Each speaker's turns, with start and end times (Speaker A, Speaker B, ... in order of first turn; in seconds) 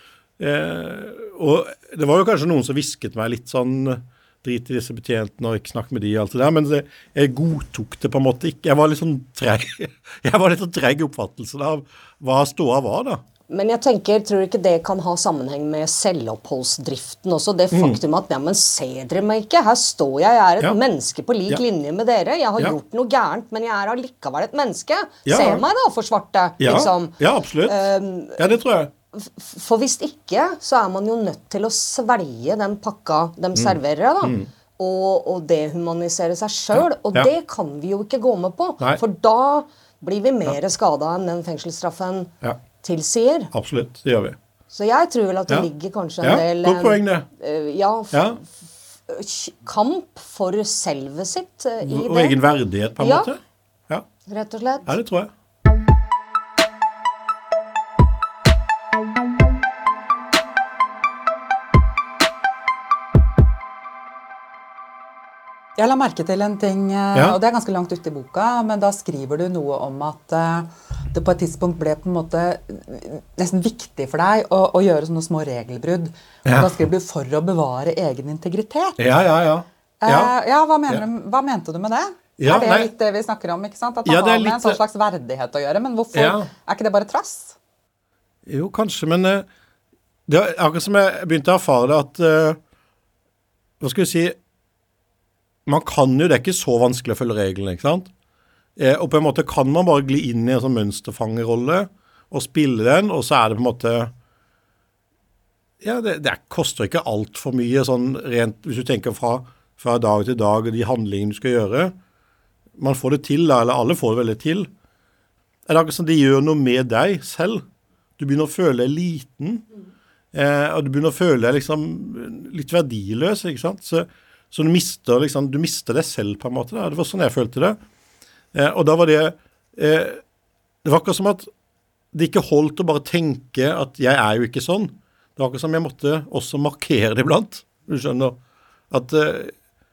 Speaker A: 0.4-13.2, 17.7-18.0, 25.2-25.6, 26.6-28.9, 33.5-34.5, 36.7-37.3, 43.5-44.4, 46.2-47.3, 48.1-48.4, 51.8-54.0, 54.9-55.3, 67.1-67.4, 79.0-80.3, 82.4-82.9, 84.0-84.8, 86.1-86.5, 88.5-89.5, 90.3-92.6, 93.8-94.3, 95.7-98.1, 98.8-104.1, 105.8-111.9, 112.8-114.7, 115.7-117.6, 118.2-119.6, 120.3-127.8, 128.5-130.2, 130.8-131.5, 132.1-138.4, 138.9-139.5
Speaker B: 13.5-28.5, 29.1-43.5, 44.7-48.5, 49.1-52.4, 53.0-53.3, 54.3-54.9
Speaker C: 65.8-79.0, 80.0-87.5